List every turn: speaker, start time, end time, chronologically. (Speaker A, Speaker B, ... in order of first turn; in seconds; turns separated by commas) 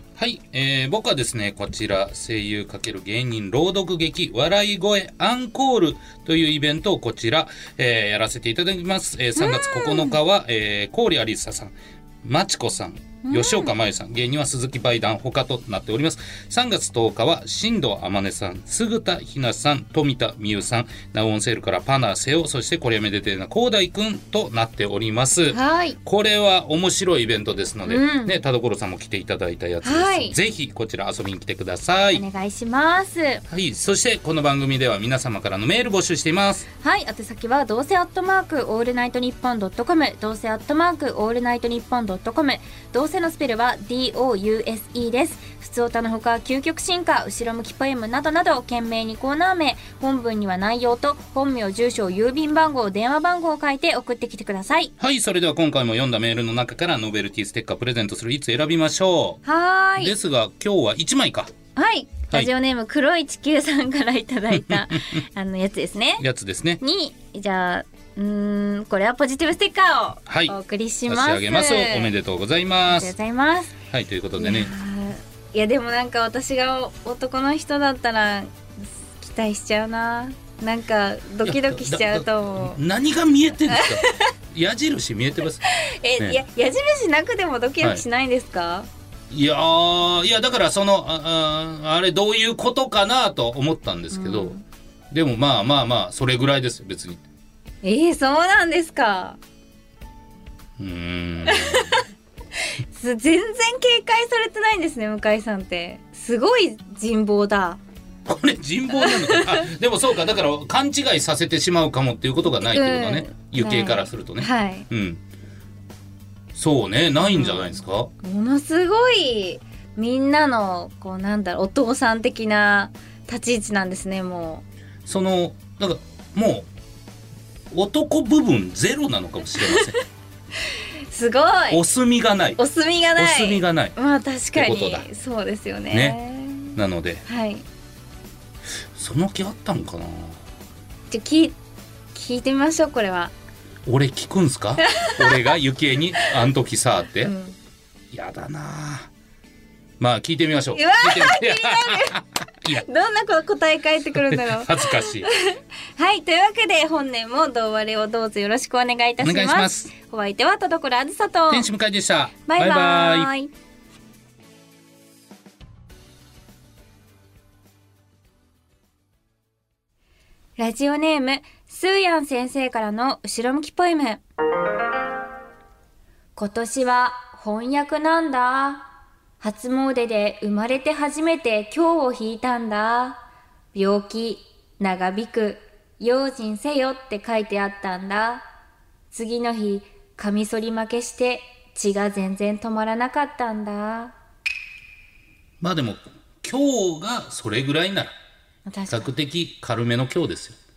Speaker A: 0.2-32.2, Speaker B: 9.4-10.2, Speaker B: 13.2-13.7, Speaker B: 25.5-26.0, Speaker B: 27.9-28.4, Speaker B: 29.8-30.4, Speaker B: 32.1-33.4, Speaker A: 33.5-36.7, Speaker B: 36.8-54.9, Speaker A: 55.0-59.4, Speaker B: 59.5-60.1, Speaker A: 60.0-61.5, Speaker B: 61.8-66.2, Speaker A: 64.5-65.2, Speaker A: 66.2-66.8, Speaker B: 66.8-72.1, Speaker A: 70.3-70.5, Speaker A: 71.1-73.1, Speaker B: 72.9-73.8, Speaker A: 73.9-74.8, Speaker B: 74.4-82.8, Speaker A: 81.4-85.6, Speaker B: 83.7-84.3, Speaker B: 85.7-88.9, Speaker A: 86.2-86.4, Speaker A: 89.3-94.6, Speaker B: 94.1-94.6, Speaker A: 95.1-97.2, Speaker B: 97.8-99.4, Speaker A: 100.8-102.0, Speaker B: 101.4-102.0, Speaker B: 102.6-107.8, Speaker A: 108.3-115.2, Speaker B: 108.9-109.7, Speaker B: 112.6-114.9, Speaker A: 116.5-118.1, Speaker B: 117.3-117.7, Speaker B: 118.2-124.6, Speaker A: 125.1-126.7, Speaker A: 127.7-130.0, Speaker B: 129.6-129.9, Speaker B: 130.6-131.8, Speaker A: 131.7-132.6, Speaker B: 132.6-137.7, Speaker A: 133.2-133.9, Speaker A: 134.6-135.1, Speaker A: 135.9-136.2, Speaker A: 136.8-137.2, Speaker A: 138.9-140.4, Speaker B: 141.1-141.6, Speaker B: 142.1-143.3, Speaker A: 143.9-147.3, Speaker B: 144.8-145.6, Speaker B: 147.2-147.6, Speaker A: 148.1-149.1, Speaker A: 150.0-152.8, Speaker B: 150.7-152.2, Speaker B: 152.7-161.7, Speaker A: 154.2-155.3, Speaker A: 159.2-159.9, Speaker A: 161.5-163.3, Speaker B: 162.5-163.5, Speaker B: 170.6-174.2, Speaker B: 176.4-178.9, Speaker B: 179.4-183.2, Speaker B: 183.7-188.4, Speaker B: 189.1-194.2, Speaker A: 195.6-198.2, Speaker B: 198.7-199.1, Speaker A: 198.9-200.6